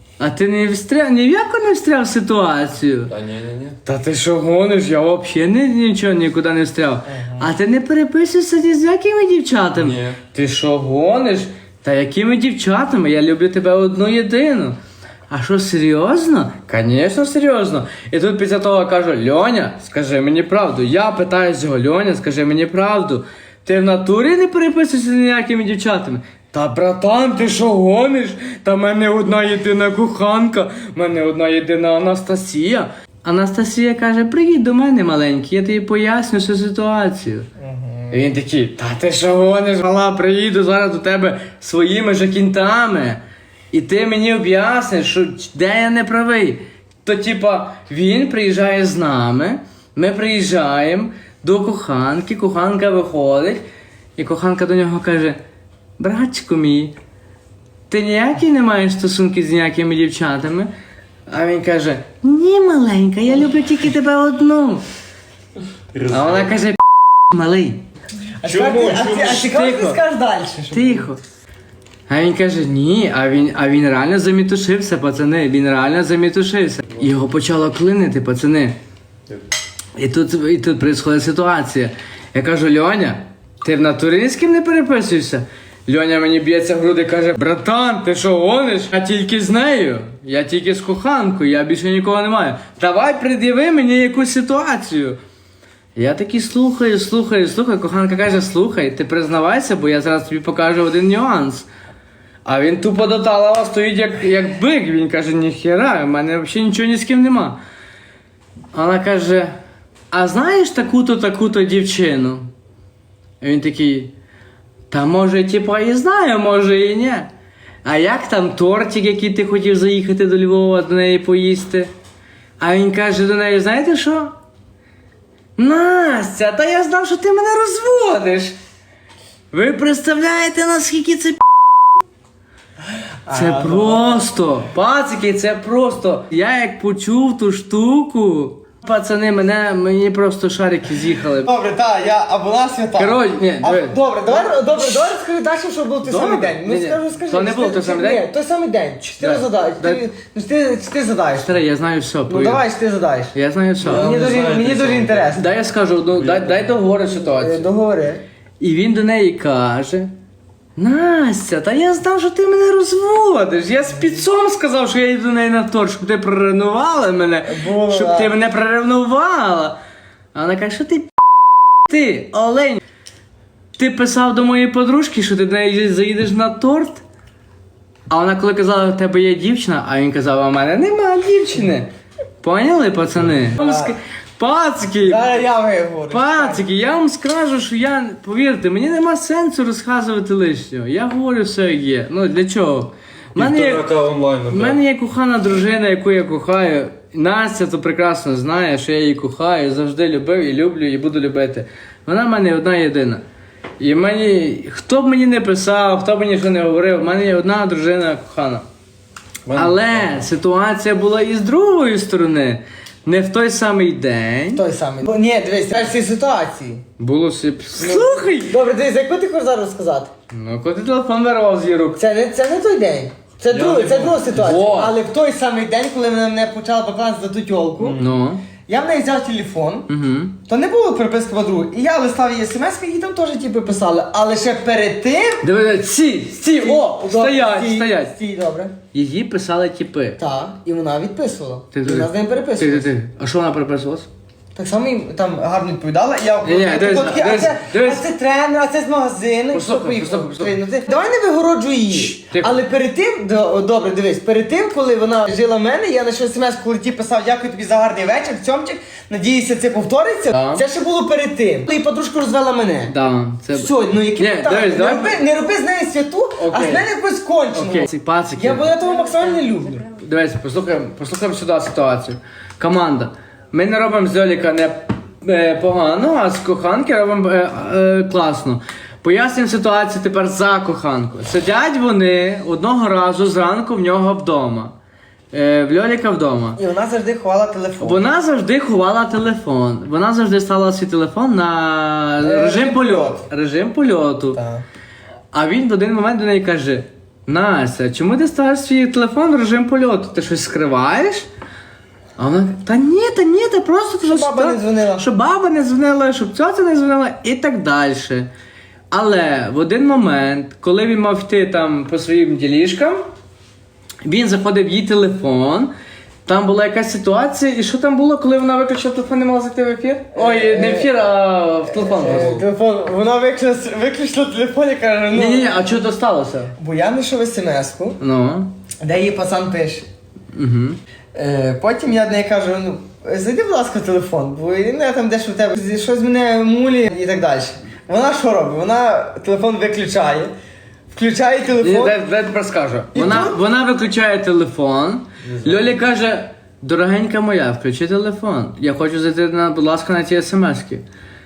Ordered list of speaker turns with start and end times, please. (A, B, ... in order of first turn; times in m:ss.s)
0:00.2-0:03.1 A
0:03.1-0:03.8 B
0:03.8-0:14.8 A
0:07.1-0:07.5 C
0:09.8-0:10.2 B
0:15.3-0:37.5 A
0:37.6-0:38.3 C
0:38.1-0:53.6 A
0:54.2-0:55.4 A
0:56.0-0:56.9 A
0:57.9-1:00.7 A
1:01.3-1:04.8 A
1:05.9-1:06.5 B
1:06.1-1:07.8 A
1:08.4-1:11.1 C
1:08.4-1:09.4 B
1:08.7-1:10.0 A
1:10.7-1:11.2 A
1:12.1-1:18.8 A
1:20.0-1:35.2 A
1:36.0-1:41.7 A
1:42.4-1:47.6 A
1:48.7-1:49.5 A
1:50.1-1:52.5 A
1:53.4-1:54.1 A
1:54.9-1:57.3 A
1:57.8-2:01.9 A
2:02.6-2:04.3 A
2:05.6-2:08.5 A
2:09.5-2:11.4 A
2:13.2-2:14.2 C
2:13.3-2:21.5 A
2:21.4-2:31.6 C
2:23.0-2:24.0 A
2:26.0-2:28.2 A
2:29.2-2:30.0 A
2:31.4-2:32.6 A
2:32.3-2:33.3 C
2:33.3-2:34.2 A
2:33.8-2:35.3 B
2:33.8-2:35.5 C
2:35.3-2:37.7 A
2:36.1-2:36.8 B
2:37.2-2:38.2 C
2:38.6-2:40.1 A
2:40.8-2:49.8 A
2:47.5-2:48.3 C
2:50.3-2:51.1 A
2:51.8-2:52.8 A
2:53.8-2:57.0 A
2:58.1-3:01.9 A
3:02.4-3:05.4 A
3:03.6-3:03.9 C
3:05.0-3:06.6 C
3:06.1-3:13.8 A
3:13.4-3:14.8 B
3:14.5-3:23.2 A
3:23.8-3:28.6 A
3:29.5-3:30.1 B
3:29.5-3:34.6 A
3:34.5-3:36.8 C
3:37.0-3:38.6 A
3:37.8-3:40.1 C
3:40.3-3:42.0 A
3:42.0-3:48.0 C
3:43.5-3:44.4 B
3:44.3-3:44.9 A
3:47.8-3:48.4 A
3:48.6-3:49.9 C
3:49.9-3:50.3 A
3:50.5-3:55.4 C
3:55.4-3:58.1 A
3:56.5-3:58.7 C
3:58.9-4:00.2 A
4:00.2-4:02.9 C
4:01.7-4:04.1 A
4:04.5-4:22.9 C
4:06.4-4:08.1 A
4:09.5-4:10.5 A
4:11.9-4:12.5 A
4:20.3-4:20.6 A
4:22.9-4:25.2 A
4:23.5-4:29.9 C
4:26.4-4:26.8 A
4:27.5-4:28.7 A
4:29.9-4:44.7 A
4:45.3-4:46.6 A
4:46.6-4:48.0 C
4:47.8-4:54.4 A
4:52.2-4:53.2 C
4:54.3-4:54.6 C
4:55.3-5:01.3 A
5:02.2-5:08.3 A
5:04.1-5:05.0 C
5:08.9-5:13.0 A
5:14.0-5:15.7 A
5:16.2-5:22.4 A
5:20.1-5:20.9 C
5:21.7-5:25.5 C
5:25.1-5:26.5 A
5:26.6-5:28.0 C
5:28.0-5:28.5 A
5:28.8-5:29.8 C
5:30.3-5:30.8 A
5:31.1-5:40.3 C
5:40.9-5:42.0 C
5:41.6-5:50.8 A
5:42.9-5:43.4 C
5:45.2-5:45.7 B